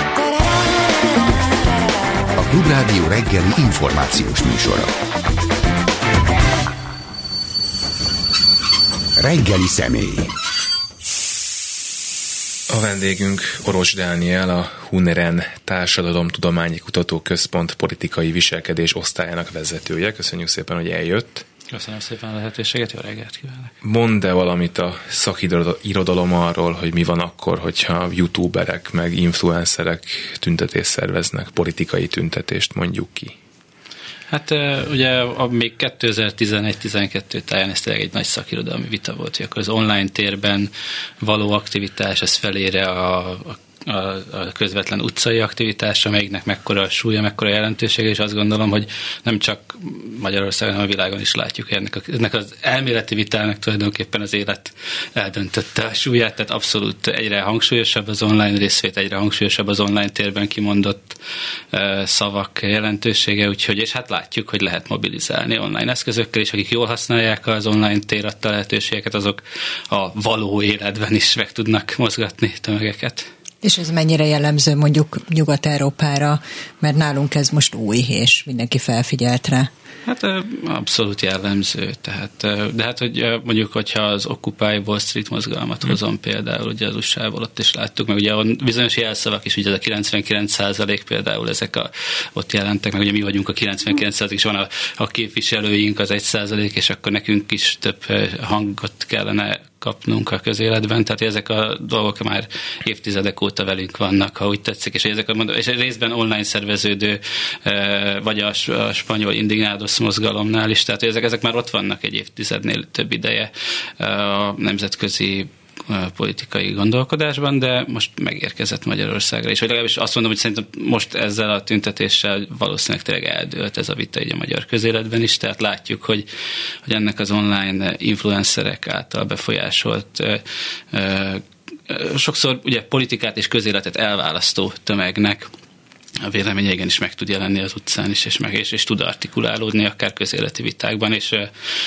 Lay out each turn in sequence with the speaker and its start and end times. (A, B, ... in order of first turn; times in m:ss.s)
0:02.4-0:04.9 A
0:09.2-0:10.3 A
0:12.7-0:21.4 B
0:21.7-0:23.7 C
0:23.8-0:33.3 B
0:34.3-1:01.2 C
1:01.7-1:13.3 C
1:13.6-1:19.7 D
1:20.1-2:06.3 C
2:06.9-2:15.5 C
2:16.2-2:21.5 C